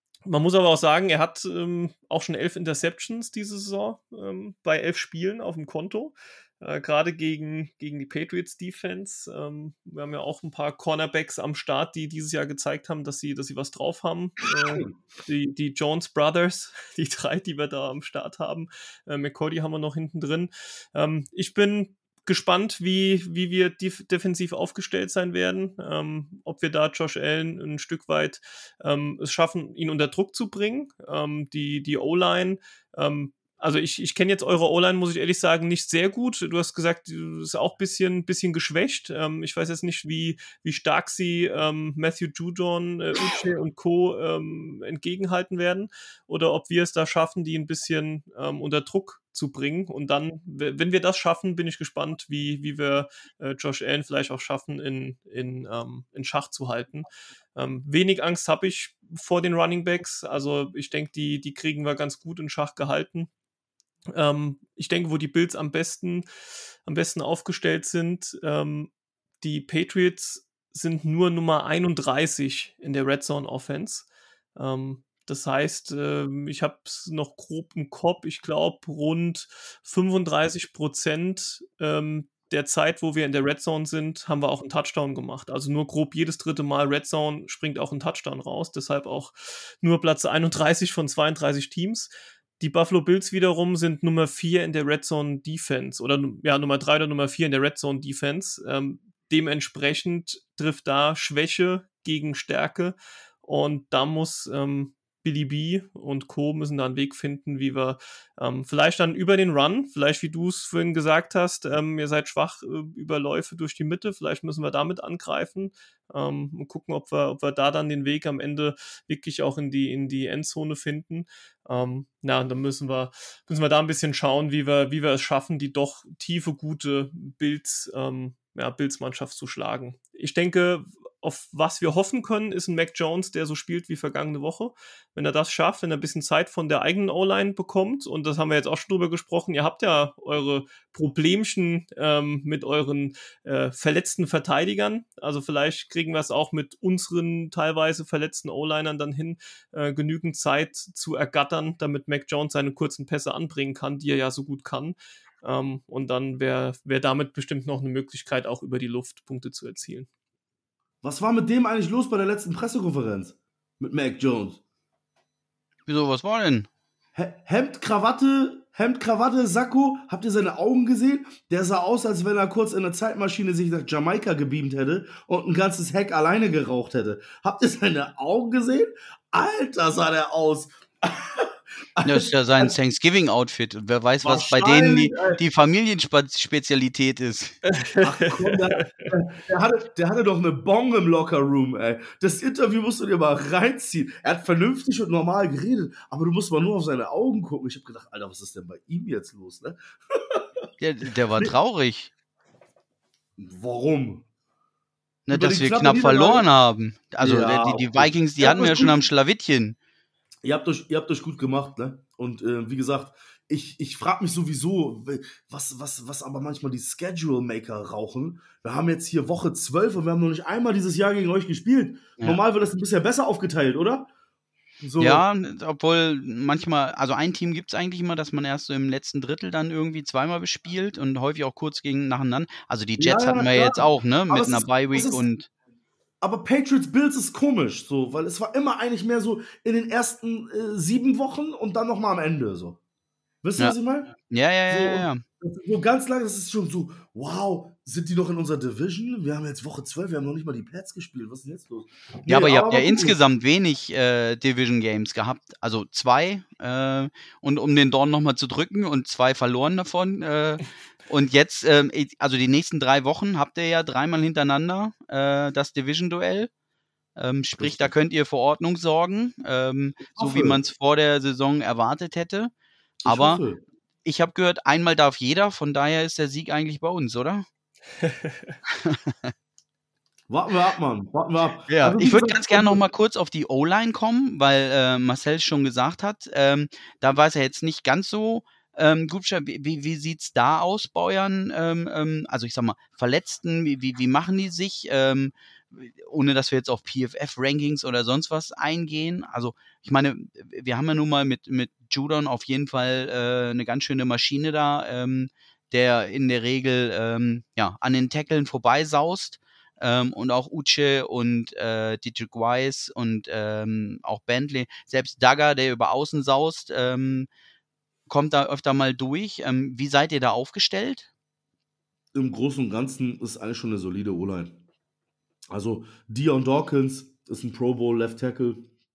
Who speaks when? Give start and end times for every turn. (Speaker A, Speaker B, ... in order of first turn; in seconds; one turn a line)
Speaker A: 0.2-63.3
Speaker B: 14.6-14.9
Speaker A: 64.1-66.2
Speaker A: 66.8-92.1
Speaker A: 92.6-160.1
Speaker B: 161.0-164.6
Speaker C: 165.9-166.7
Speaker B: 167.1-182.8
Speaker C: 182.0-187.6
Speaker B: 184.2-185.4
Speaker A: 187.7-189.1
Speaker B: 188.0-200.4
Speaker C: 200.8-202.1
Speaker B: 203.4-204.2
Speaker C: 205.3-209.8
Speaker B: 205.3-206.4
Speaker B: 207.2-208.9
Speaker B: 210.4-224.1
Speaker B: 224.8-225.2
Speaker C: 225.0-235.5
Speaker B: 233.0-235.2
Speaker B: 236.2-242.8
Speaker B: 243.4-244.1
Speaker C: 243.6-245.2
Speaker B: 244.7-253.2
Speaker C: 252.3-266.5
Speaker C: 267.1-272.5
Speaker B: 267.6-267.9
Speaker B: 270.1-270.6
Speaker B: 273.0-273.6
Speaker C: 273.1-273.4
Speaker C: 274.0-277.4
Speaker C: 278.7-279.3
Speaker B: 280.3-282.8
Speaker C: 281.7-317.3
Speaker C: 318.1-321.1
Speaker B: 322.1-324.6
Speaker B: 325.5-328.7